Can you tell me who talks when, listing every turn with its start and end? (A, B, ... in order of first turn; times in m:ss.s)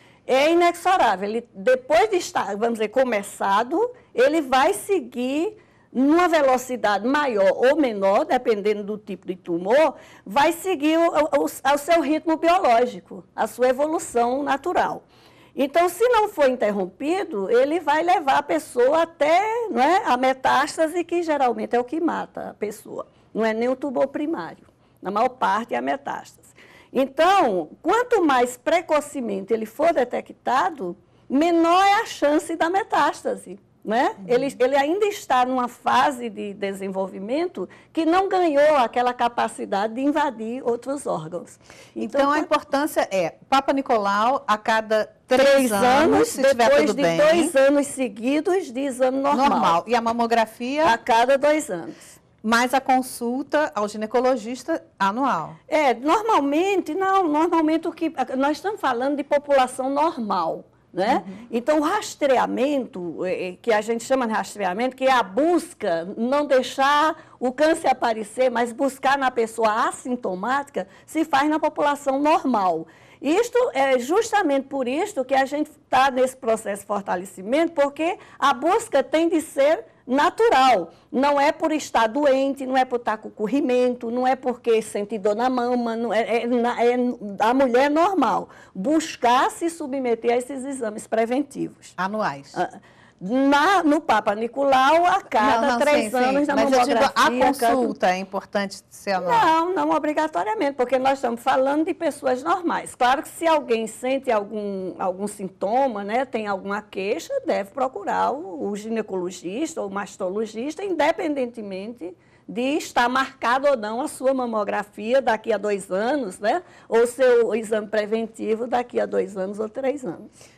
0:00.3-0:42.5 A
0:34.2-0:34.5 B
0:42.0-0:47.5 B
0:45.3-0:49.8 A
0:49.3-0:51.0 B
0:50.8-0:52.2 A
0:52.4-0:55.6 B
0:55.7-1:32.0 A
1:01.1-1:01.3 B
1:32.0-1:32.6 B
1:32.5-1:37.9 A
1:35.4-1:39.5 B
1:39.1-2:00.3 A